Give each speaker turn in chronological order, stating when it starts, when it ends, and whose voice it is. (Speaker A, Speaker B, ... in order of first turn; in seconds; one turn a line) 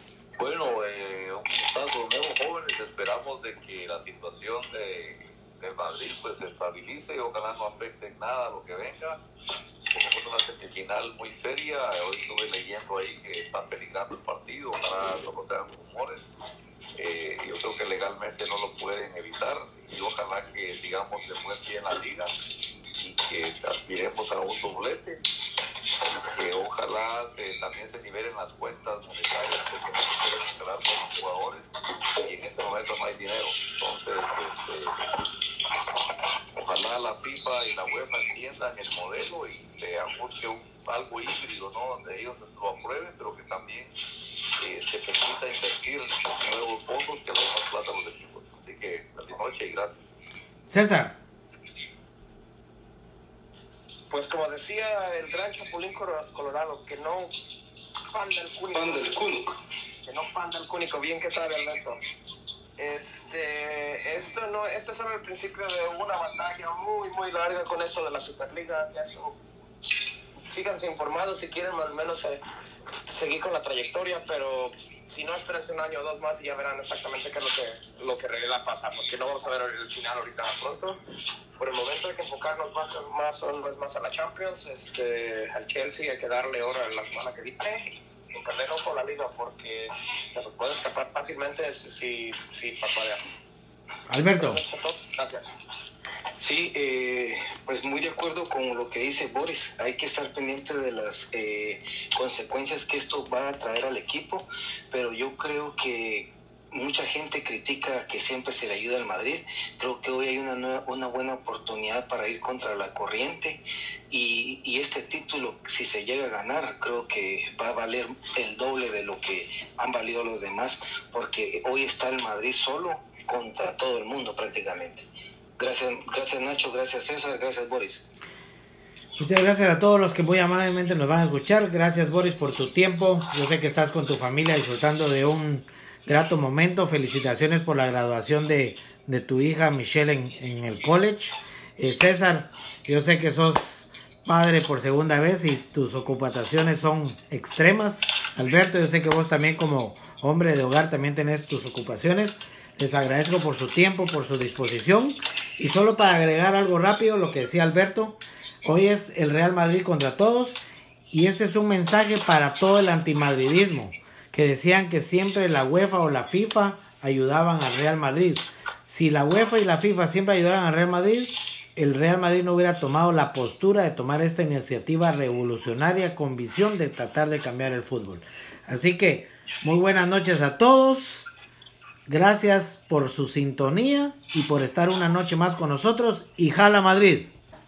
Speaker A: 0.4-9.2
Speaker A: 9.9-16.3
Speaker A: 16.9-22.3
Speaker A: 23.0-25.2
Speaker A: 26.3-35.0
Speaker A: 36.6-43.9
Speaker A: 44.6-50.0
Speaker B: 50.7-51.2
Speaker C: 54.1-57.3
Speaker C: 58.1-59.1
Speaker D: 58.7-59.6
Speaker C: 60.0-62.0
Speaker C: 62.8-69.3
Speaker C: 70.5-72.4
Speaker C: 73.0-81.0
Speaker C: 81.6-93.2
Speaker B: 94.1-94.6
Speaker C: 94.3-95.5
Speaker D: 96.4-125.0
Speaker D: 125.6-128.0
Speaker B: 129.2-181.3
Speaker B: 182.1-187.3